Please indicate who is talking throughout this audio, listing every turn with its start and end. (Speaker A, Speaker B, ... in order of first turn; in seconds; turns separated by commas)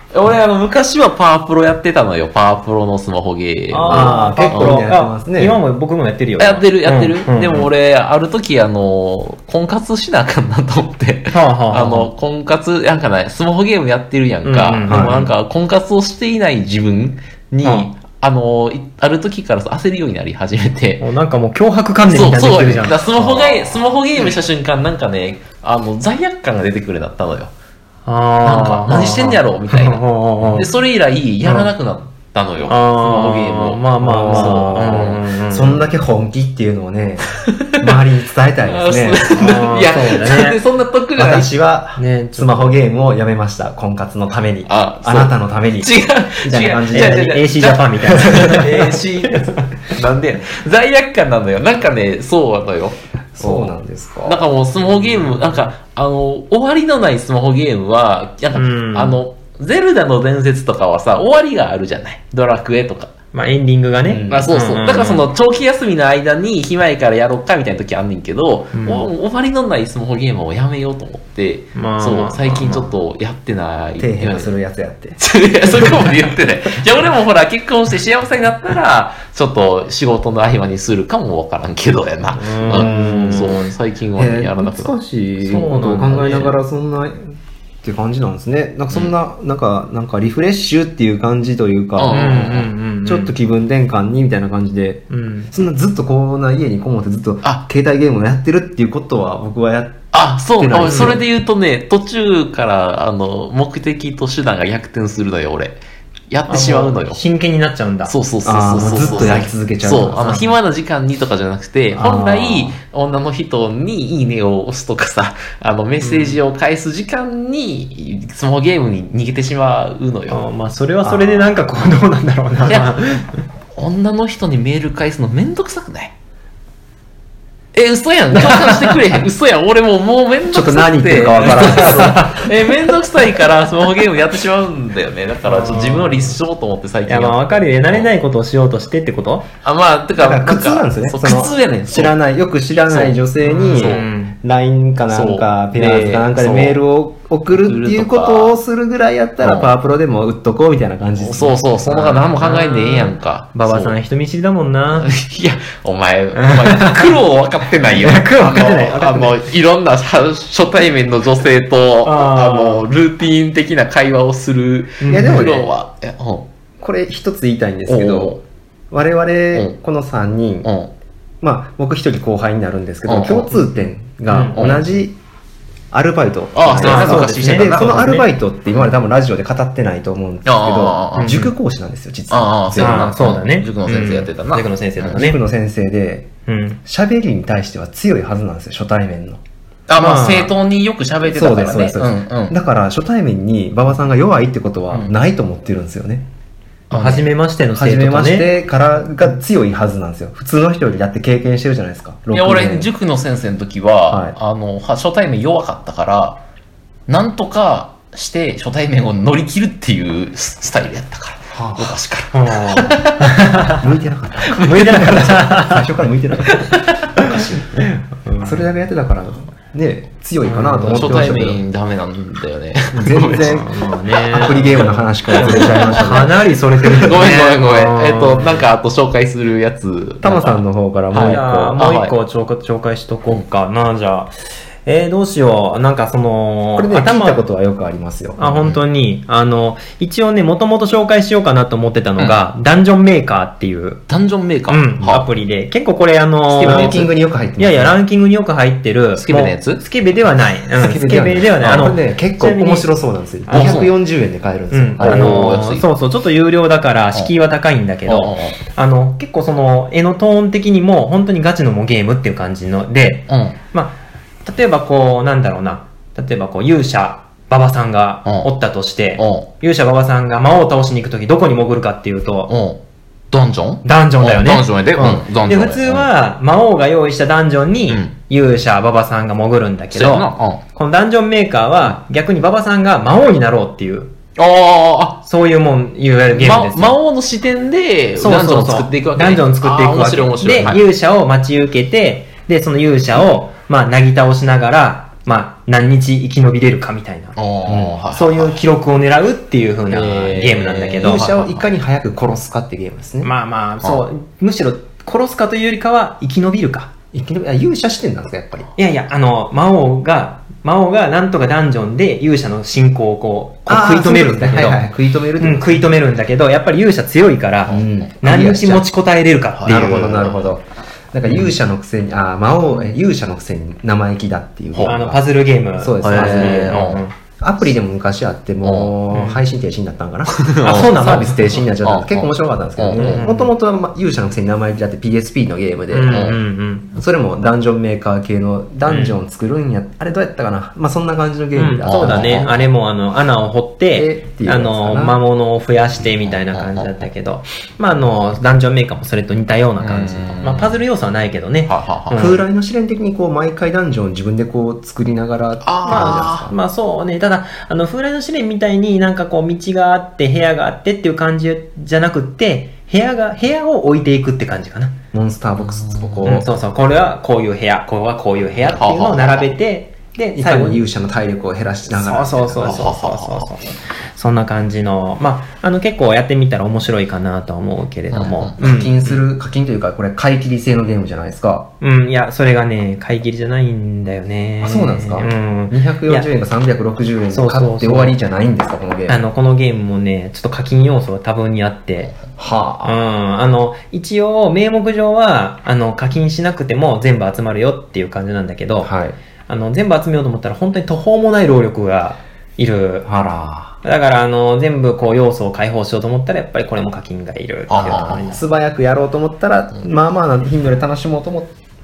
Speaker A: 0.1-4.8, Speaker B: 3.7-7.7, Speaker C: 3.8-5.6, Speaker A: 6.4-21.0, Speaker B: 11.3-12.1, Speaker B: 14.4-15.3, Speaker C: 14.9-15.3, Speaker B: 17.6-17.9, Speaker B: 21.0-23.7, Speaker A: 22.1-27.5, Speaker B: 28.1-30.7, Speaker A: 28.4-35.2, Speaker B: 31.4-31.7, Speaker B: 32.7-35.9, Speaker C: 34.0-39.6, Speaker A: 37.4-38.0, Speaker A: 38.7-41.5, Speaker B: 39.3-40.6, Speaker C: 41.2-47.4, Speaker B: 42.0-42.8, Speaker A: 44.7-53.7, Speaker B: 46.9-49.9, Speaker C: 53.4-54.5, Speaker A: 54.2-63.1, Speaker B: 58.5-59.2, Speaker B: 63.3-65.3, Speaker C: 64.0-64.5, Speaker A: 64.3-74.5, Speaker B: 68.7-69.1, Speaker B: 71.8-73.0, Speaker C: 74.0-75.2, Speaker A: 75.2-84.9, Speaker C: 75.8-76.1, Speaker B: 82.4-83.8, Speaker C: 82.7-83.6, Speaker C: 84.2-101.2, Speaker B: 85.4-86.5, Speaker A: 86.1-86.5, Speaker A: 92.0-92.7, Speaker B: 92.1-93.3, Speaker B: 95.1-95.5, Speaker A: 100.1-105.8, Speaker B: 100.8-101.2, Speaker A: 106.3-107.2, Speaker B: 106.5-108.2, Speaker A: 108.1-120.5, Speaker C: 108.4-110.5, Speaker B: 108.8-109.4, Speaker C: 112.0-112.5, Speaker B: 112.0-112.3, Speaker B: 116.0-116.4, Speaker B: 120.3-123.4, Speaker C: 121.0-121.5, Speaker A: 122.7-123.0, Speaker A: 123.8-126.1, Speaker A: 127.7-138.1, Speaker B: 128.5-128.8, Speaker C: 130.5-132.5, Speaker B: 131.6-132.4, Speaker B: 135.4-136.4, Speaker B: 137.1-139.5, Speaker A: 139.6-142.1, Speaker C: 140.2-152.2, Speaker A: 142.9-144.1, Speaker B: 143.4-144.3, Speaker A: 145.1-146.8, Speaker A: 147.5-148.6, Speaker A: 149.4-149.7, Speaker A: 151.2-154.0, Speaker B: 152.0-155.1, Speaker A: 155.0-166.5, Speaker B: 156.3-157.2, Speaker B: 157.9-159.4, Speaker B: 162.0-162.9, Speaker B: 165.0-165.5, Speaker C: 165.1-165.7, Speaker C: 166.8-170.7, Speaker A: 167.9-168.4, Speaker A: 170.6-170.9, Speaker C: 171.4-175.2, Speaker A: 173.1-173.6, Speaker B: 174.3-174.6, Speaker A: 174.6-174.8, Speaker C: 175.9-183.2, Speaker A: 176.6-178.1, Speaker B: 176.8-178.3, Speaker A: 180.4-181.5, Speaker B: 181.2-181.5, Speaker A: 182.3-185.2, Speaker B: 182.8-185.4, Speaker C: 185.1-186.3, Speaker B: 186.5-186.8, Speaker C: 186.8-189.4, Speaker A: 189.9-192.6, Speaker B: 190.0-190.5, Speaker C: 191.3-196.3, Speaker A: 196.9-197.3, Speaker B: 196.9-198.5, Speaker C: 197.7-202.9, Speaker A: 202.3-206.4, Speaker C: 204.1-204.4, Speaker A: 207.1-213.3, Speaker C: 211.5-212.0, Speaker B: 212.3-213.8, Speaker C: 213.7-217.9, Speaker A: 214.5-215.4, Speaker B: 214.6-215.9, Speaker A: 216.5-217.2, Speaker B: 217.8-218.6, Speaker C: 218.4-221.6, Speaker B: 220.4-221.3, Speaker A: 220.9-223.7, Speaker C: 222.9-223.7, Speaker B: 223.4-228.7, Speaker C: 224.3-227.2, Speaker A: 224.3-226.3, Speaker A: 226.9-232.2, Speaker C: 230.2-231.8, Speaker B: 231.2-234.3, Speaker B: 234.8-237.4, Speaker C: 236.8-238.8, Speaker B: 238.4-244.0, Speaker A: 244.1-245.3, Speaker B: 244.7-252.9, Speaker C: 246.6-248.0, Speaker A: 246.6-247.1, Speaker A: 249.2-249.8, Speaker C: 250.7-255.6, Speaker B: 253.5-253.8, Speaker A: 253.5-253.9, Speaker B: 254.7-272.5, Speaker A: 255.0-255.8, Speaker A: 258.1-258.6, Speaker A: 263.3-263.6, Speaker A: 269.2-269.5, Speaker A: 272.5-272.8, Speaker A: 273.3-276.1, Speaker B: 273.8-284.1, Speaker A: 279.9-280.6, Speaker A: 284.4-285.2, Speaker B: 285.2-287.0, Speaker A: 286.4-290.8, Speaker B: 288.2-297.4, Speaker A: 297.4-298.6, Speaker C: 297.7-298.0, Speaker B: 298.1-301.3, Speaker A: 299.9-301.7, Speaker C: 301.0-303.3, Speaker B: 303.2-306.9, Speaker C: 307.1-308.7, Speaker B: 308.8-320.2, Speaker C: 313.7-315.9, Speaker C: 317.7-318.9, Speaker A: 319.6-320.5, Speaker C: 319.7-325.2, Speaker B: 324.8-327.1, Speaker C: 325.8-336.3, Speaker A: 326.0-327.0, Speaker A: 328.6-328.9, Speaker B: 329.1-329.4, Speaker A: 330.3-333.3, Speaker B: 330.6-331.6, Speaker B: 333.0-333.5, Speaker B: 335.9-336.9, Speaker A: 336.1-336.4, Speaker C: 336.9-342.5, Speaker B: 338.9-339.2, Speaker B: 341.6-352.4, Speaker A: 341.9-342.6, Speaker C: 343.9-345.2, Speaker A: 346.2-347.1, Speaker A: 349.8-350.8, Speaker A: 351.7-352.3, Speaker C: 352.1-356.6, Speaker A: 355.6-356.5, Speaker B: 355.9-364.9, Speaker C: 365.1-366.5, Speaker A: 365.6-366.4, Speaker B: 366.2-370.8, Speaker A: 368.7-369.5, Speaker C: 370.4-372.9, Speaker B: 371.9-379.2, Speaker A: 372.6-373.5, Speaker A: 378.1-378.5, Speaker C: 378.6-381.7, Speaker B: 381.8-386.3, Speaker C: 384.6-389.2, Speaker B: 387.3-388.2, Speaker B: 389.1-392.1, Speaker C: 392.4-392.9, Speaker B: 392.8-398.9, Speaker C: 398.8-399.2, Speaker B: 399.5-403.1, Speaker C: 403.1-403.8, Speaker B: 403.8-408.4, Speaker A: 407.7-408.3, Speaker C: 407.8-411.5